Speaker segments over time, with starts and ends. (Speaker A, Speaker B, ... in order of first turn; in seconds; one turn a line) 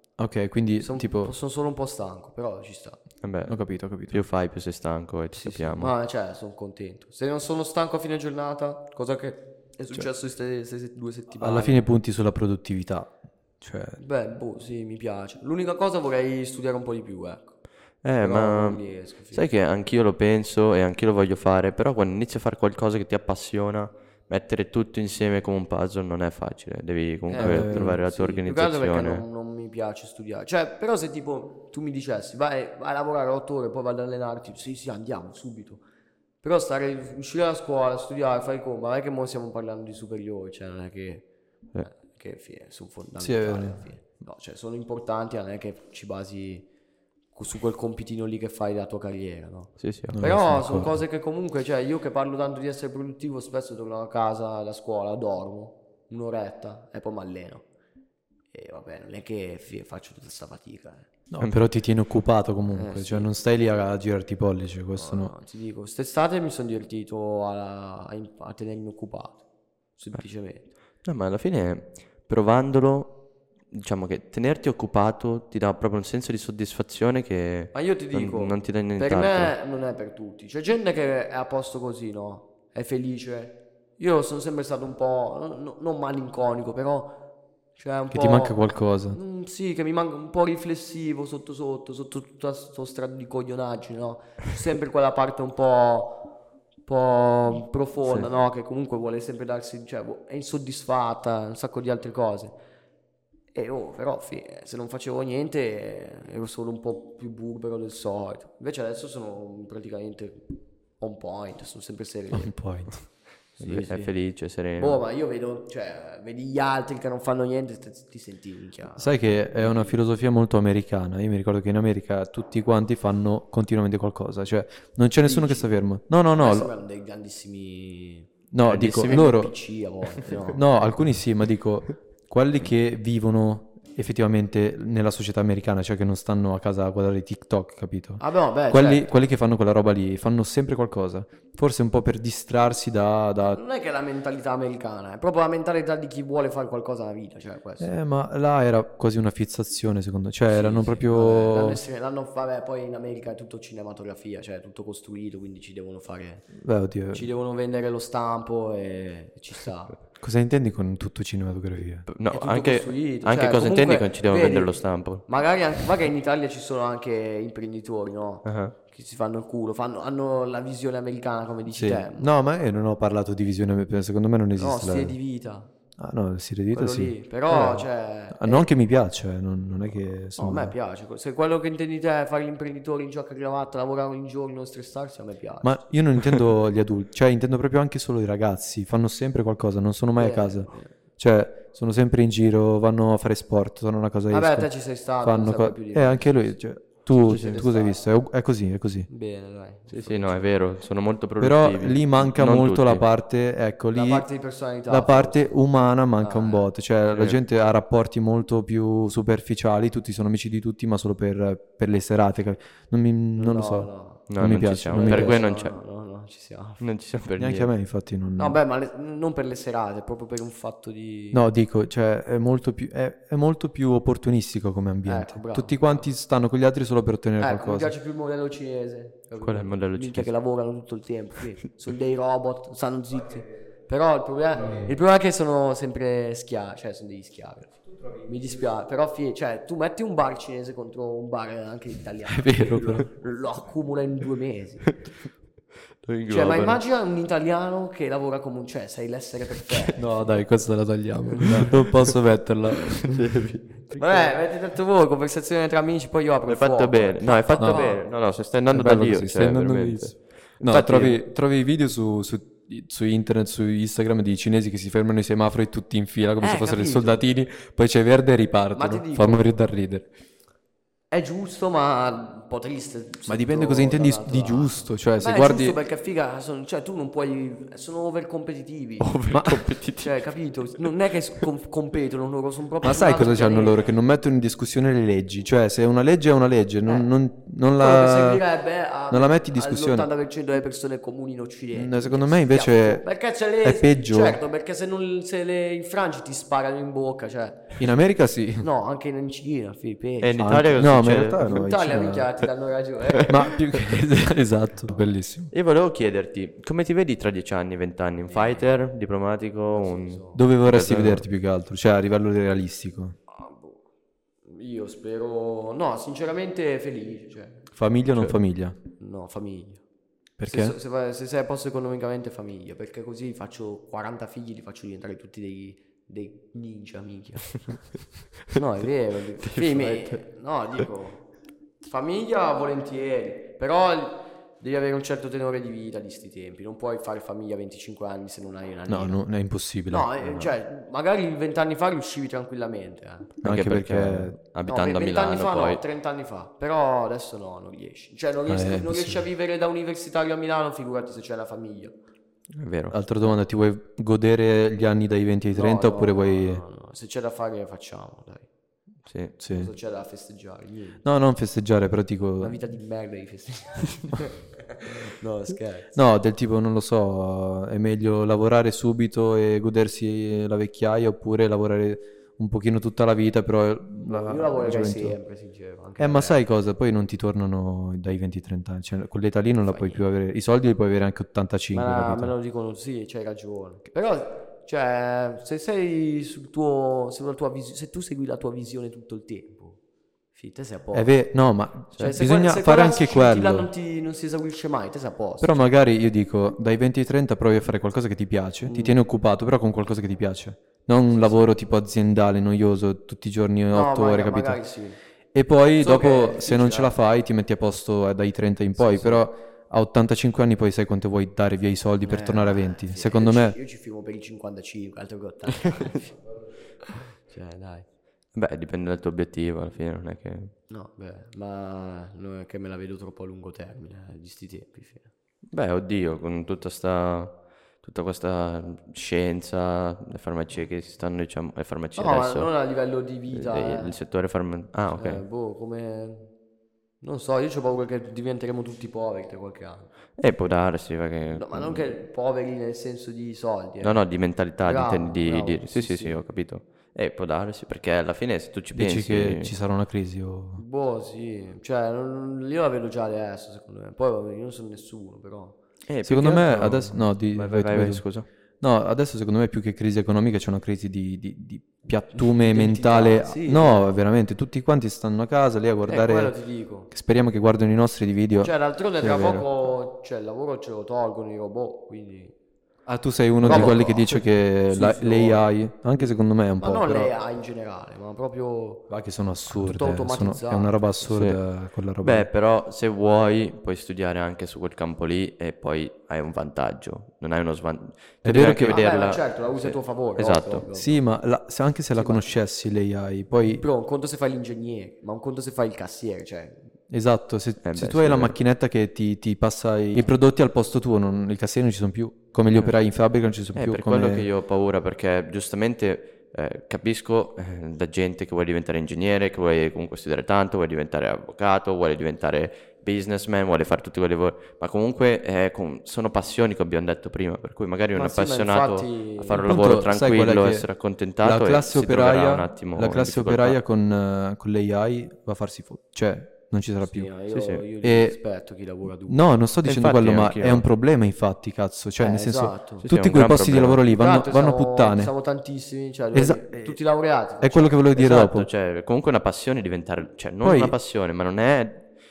Speaker A: 0.2-1.3
Speaker B: 0.8-3.0
Speaker C: 3.2-5.9
Speaker A: 3.5-4.2
Speaker B: 5.3-11.8
Speaker A: 11.4-14.0
Speaker B: 14.0-17.6
Speaker C: 18.0-29.2
Speaker B: 18.2-19.5
Speaker B: 27.3-35.8
Speaker A: 27.4-28.0
Speaker B: 36.4-41.3
Speaker B: 41.8-46.7
Speaker A: 43.2-43.8
Speaker B: 47.3-57.6
Speaker C: 49.8-50.2
Speaker A: 50.1-51.0
Speaker B: 58.5-61.1
Speaker A: 61.3-65.3
Speaker B: 62.7-63.3
Speaker B: 65.0-69.4
Speaker B: 70.0-70.7
Speaker C: 71.0-79.5
Speaker B: 77.7-87.2
Speaker B: 87.8-96.3
Speaker A: 88.1-89.2
Speaker B: 96.9-102.6
Speaker B: 103.5-112.5
Speaker A: 112.3-113.0
Speaker B: 113.6-114.1
Speaker C: 113.6-115.0
Speaker B: 114.8-120.0
Speaker A: 119.0-126.7
Speaker B: 125.2-125.8
Speaker B: 126.4-130.6
Speaker A: 128.5-129.5
Speaker C: 128.7-129.1
Speaker A: 130.5-143.6
Speaker B: 138.2-139.1
Speaker B: 143.5-147.9
Speaker A: 147.8-151.8
Speaker B: 150.5-156.6
Speaker A: 156.6-157.3
Speaker B: 157.1-160.0
Speaker A: 160.2-162.1
Speaker C: 162.1-165.3
Speaker B: 162.3-172.3
Speaker C: 168.4-168.8
Speaker A: 171.8-175.2
Speaker B: 174.6-175.7
Speaker A: 176.0-180.7
Speaker B: 176.7-178.7
Speaker B: 180.3-185.8
Speaker A: 185.6-199.1
Speaker B: 190.2-190.9
Speaker B: 194.3-196.6
Speaker B: 197.1-198.0
Speaker C: 197.3-197.6
Speaker B: 199.1-200.5
Speaker C: 199.9-203.1
Speaker A: 201.4-204.3
Speaker B: 203.9-205.6
Speaker A: 204.9-215.4
Speaker B: 206.2-206.7
Speaker C: 207.1-207.4
Speaker B: 213.4-214.3
Speaker C: 214.3-215.8
Speaker B: 214.9-216.8
Speaker C: 216.8-217.7
Speaker A: 217.4-218.6
Speaker B: 218.4-221.4
Speaker A: 221.3-227.9
Speaker B: 225.1-226.1
Speaker B: 227.4-244.9
Speaker C: 229.4-230.3
Speaker A: 234.6-234.9
Speaker A: 242.3-243.1
Speaker C: 246.0-246.8
Speaker B: 246.3-250.4
Speaker A: 250.0-253.1
Speaker B: 251.3-251.7
Speaker C: 252.8-254.3
Speaker B: 253.9-258.0
Speaker C: 256.5-261.2
Speaker A: 257.6-257.9
Speaker A: 258.7-270.1
Speaker B: 266.4-267.2
Speaker B: 268.7-269.5
Speaker B: 271.1-279.2
Speaker A: 273.3-275.8
Speaker C: 279.0-280.3
Speaker A: 279.3-279.6
Speaker B: 280.0-283.9
Speaker A: 282.8-288.4
Speaker B: 287.8-297.8
Speaker A: 289.1-290.1
Speaker A: 291.7-293.1
Speaker A: 293.6-294.4
Speaker A: 297.8-298.7
Speaker B: 298.6-303.5
Speaker C: 300.2-301.4
Speaker A: 300.4-302.3
Speaker A: 303.3-305.5
Speaker C: 305.5-311.2
Speaker B: 308.3-308.6
Speaker B: 309.7-310.4
Speaker A: 310.4-313.1
Speaker B: 313.3-313.8
Speaker B: 314.4-317.7
Speaker A: 317.7-318.8
Speaker B: 319.0-319.8
Speaker A: 320.4-320.8
Speaker B: 320.5-327.6
Speaker B: 328.5-331.3
Speaker C: 329.4-330.2
Speaker B: 331.8-339.2
Speaker A: 338.9-340.4
Speaker B: 339.9-343.3
Speaker A: 343.4-344.4
Speaker C: 343.4-345.8
Speaker B: 344.7-352.0
Speaker A: 348.5-349.2
Speaker C: 352.6-353.0
Speaker A: 352.9-356.6
Speaker B: 355.5-358.5
Speaker C: 359.1-359.4
Speaker A: 359.4-359.7
Speaker B: 359.5-361.0
Speaker A: 361.0-362.6
Speaker B: 362.4-365.9
Speaker A: 365.9-375.2
Speaker B: 374.0-376.4
Speaker A: 376.0-382.3
Speaker B: 379.6-380.0
Speaker B: 381.7-389.8
Speaker B: 390.3-391.1
Speaker A: 390.9-393.7
Speaker B: 392.0-395.6
Speaker A: 395.4-404.6
Speaker B: 398.7-399.0
Speaker B: 401.1-401.5
Speaker B: 403.7-405.0
Speaker A: 405.3-413.6
Speaker B: 405.8-407.0
Speaker B: 408.7-409.3
Speaker B: 412.0-416.2
Speaker B: 416.8-417.9
Speaker C: 418.3-420.5
Speaker B: 420.7-425.1
Speaker C: 425.5-432.5
Speaker B: 432.0-434.0
Speaker C: 433.3-435.2
Speaker B: 435.0-436.3
Speaker B: 437.0-439.9
Speaker C: 440.2-441.9
Speaker B: 441.4-444.0
Speaker C: 443.8-449.5
Speaker B: 444.6-446.2
Speaker A: 448.7-450.6
Speaker B: 450.6-455.6
Speaker C: 455.9-458.3
Speaker A: 456.0-458.1
Speaker A: 458.6-466.4
Speaker B: 462.1-463.9
Speaker B: 465.9-466.9
Speaker A: 466.9-468.5
Speaker B: 468.4-472.3
Speaker C: 469.1-469.4
Speaker A: 472.9-477.1
Speaker B: 473.4-478.9
Speaker C: 473.5-473.8
Speaker A: 478.9-482.3
Speaker B: 479.5-481.1
Speaker C: 481.1-481.4
Speaker C: 482.0-490.6
Speaker A: 488.2-488.8
Speaker B: 488.6-491.0
Speaker A: 490.7-493.6
Speaker B: 491.9-492.3
Speaker B: 493.4-496.7
Speaker A: 496.9-504.3
Speaker C: 497.6-498.4
Speaker C: 503.6-523.6
Speaker B: 518.0-519.6
Speaker A: 519.5-520.7
Speaker A: 521.2-527.1
Speaker B: 526.8-529.3
Speaker C: 527.3-527.6
Speaker A: 527.8-528.2
Speaker A: 529.1-535.1
Speaker C: 529.6-530.7
Speaker B: 532.0-532.9
Speaker C: 532.8-533.9
Speaker B: 533.9-538.0
Speaker A: 536.1-536.8
Speaker A: 537.4-538.5
Speaker C: 538.0-541.9
Speaker A: 540.4-540.7